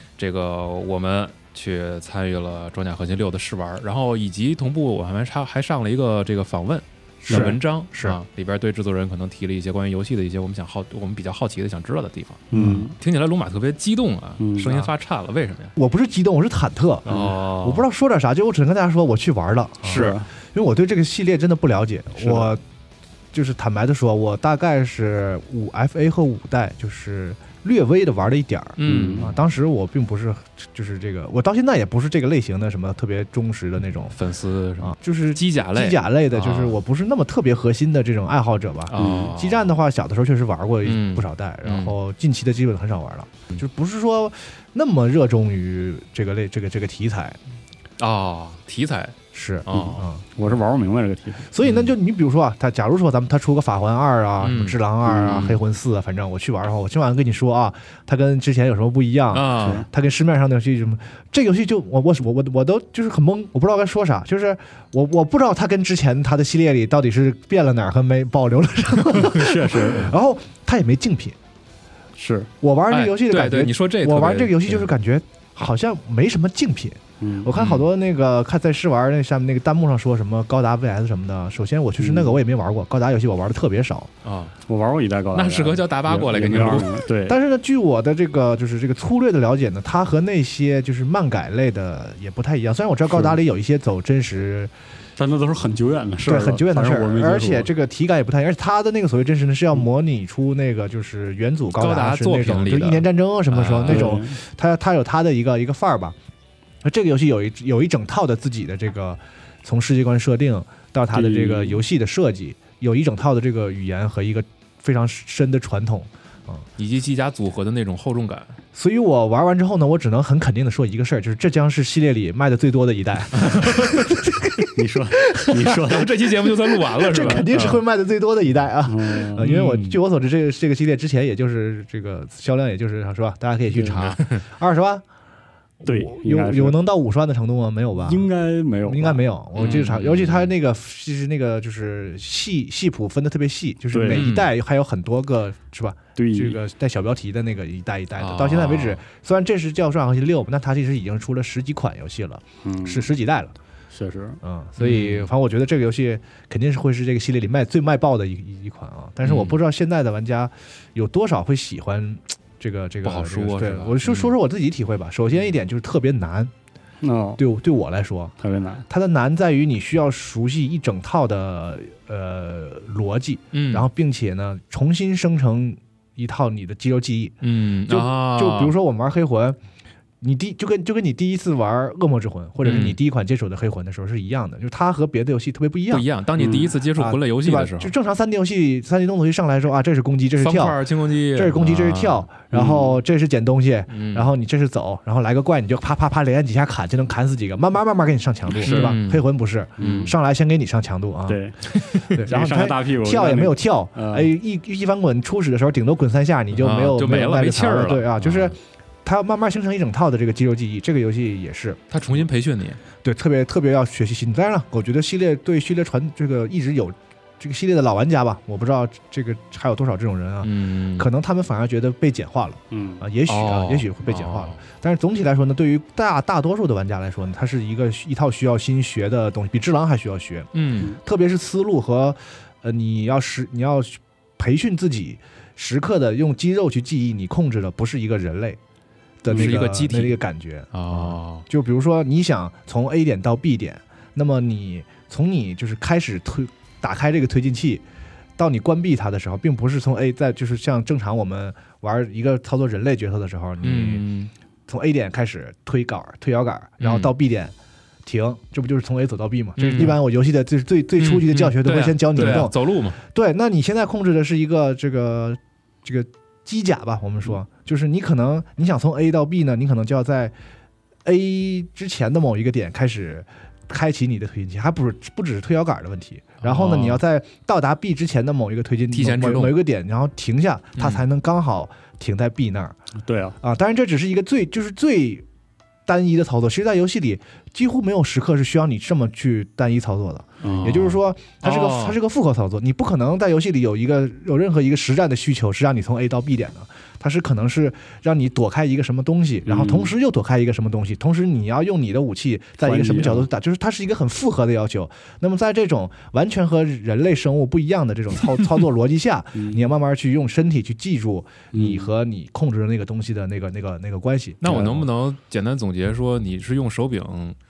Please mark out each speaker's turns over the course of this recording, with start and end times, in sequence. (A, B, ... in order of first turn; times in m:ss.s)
0:00.2-0:15.7 A
0:07.2-0:08.2 B
0:07.3-0:07.5 C
0:12.5-0:12.9 C
0:12.5-0:12.9 B
0:14.4-0:14.7 C
0:14.6-0:14.9 B
0:15.8-0:22.6 B
0:17.1-0:17.3 C
0:17.1-0:17.8 A
0:19.8-0:20.2 A
0:19.9-0:20.2 C
0:22.2-0:22.5 C
0:23.3-0:34.2 B
0:28.8-0:29.3 A
0:28.8-0:29.3 C
0:34.1-0:36.8 A
0:34.8-0:47.4 B
0:38.9-0:39.7 A
0:38.9-0:39.3 C
0:40.8-0:41.9 A
0:48.0-0:50.0 A
0:49.3-0:50.2 B
0:50.3-0:51.5 C
0:51.5-1:11.4 B
0:51.6-0:51.9 A
0:54.4-0:55.6 A
0:55.0-0:55.4 C
0:59.3-0:59.8 A
0:59.6-0:59.8 C
1:09.1-1:10.1 C
1:12.2-1:12.5 C
1:12.6-1:24.1 B
1:12.9-1:14.9 A
1:17.2-1:17.5 C
1:17.5-1:17.9 A
1:22.0-1:22.4 C
1:24.2-1:24.5 A
1:24.7-1:27.4 C
1:25.3-1:27.0 A
1:27.3-1:34.7 B
1:33.1-1:33.4 C
1:35.2-1:37.7 C
1:36.2-1:46.2 B
1:41.7-1:44.2 A
1:43.8-1:44.4 C
1:46.8-1:56.6 B
1:51.1-1:51.8 C
1:56.8-1:58.6 A
1:58.7-2:06.1 B
2:03.4-2:04.0 A
2:04.8-2:06.3 C
2:05.7-2:07.8 A
2:06.7-2:15.0 B
2:07.1-2:07.5 C
2:08.8-2:09.9 C
2:09.4-2:09.8 A
2:13.7-2:14.0 C
2:13.8-2:14.4 A
2:15.8-2:18.2 B
2:15.8-2:16.8 C
2:18.0-2:19.8 C
2:18.8-2:33.5 B
2:19.6-2:20.5 A
2:23.9-2:24.3 C
2:24.1-2:24.5 A
2:26.2-2:26.6 C
2:28.2-2:29.0 A
2:32.6-2:33.1 C
2:33.9-2:34.4 C
2:34.4-2:46.5 B
2:34.8-2:35.3 A
2:39.2-2:39.6 A
2:43.0-2:44.3 A
2:47.0-2:47.4 C
2:47.4-2:48.3 B
2:48.4-2:48.8 C
2:48.9-2:57.4 B
2:53.5-2:53.9 A
2:57.4-2:58.7 A
2:57.9-2:59.6 B
3:00.2-3:32.2 B
3:02.6-3:03.0 A
3:05.9-3:07.9 A
3:06.4-3:06.7 C
3:10.4-3:12.2 A
3:12.5-3:13.0 C
3:13.9-3:14.3 A
3:18.6-3:19.3 A
3:18.6-3:18.9 C
3:19.8-3:20.1 A
3:19.8-3:20.1 C
3:21.3-3:24.3 C
3:21.9-3:22.2 A
3:26.6-3:28.5 A
3:31.9-3:32.8 A
3:33.0-3:58.6 B
3:40.4-3:41.1 A
3:42.7-3:43.0 C
3:43.3-3:44.6 A
3:50.5-3:50.9 A
3:59.2-4:07.8 B
3:59.3-3:59.5 C
3:59.3-4:00.2 A
4:00.7-4:01.4 A
4:08.4-4:14.0 B
4:13.6-4:14.3 A
4:14.7-4:17.5 B
4:16.8-4:17.1 A
4:18.0-4:30.3 B
4:19.6-4:20.0 A
4:21.0-4:23.0 A
4:31.0-4:42.8 B
4:36.4-4:37.0 A
4:38.9-4:39.6 A
4:40.8-4:41.0 A
4:43.0-4:43.4 C
4:43.4-4:45.2 B
4:45.8-5:14.9 B
4:50.4-4:51.0 C
4:51.4-4:52.0 A
4:59.4-4:59.9 C
5:02.6-5:03.3 C
5:09.3-5:09.6 C
5:11.5-5:11.9 C
5:14.4-5:17.4 A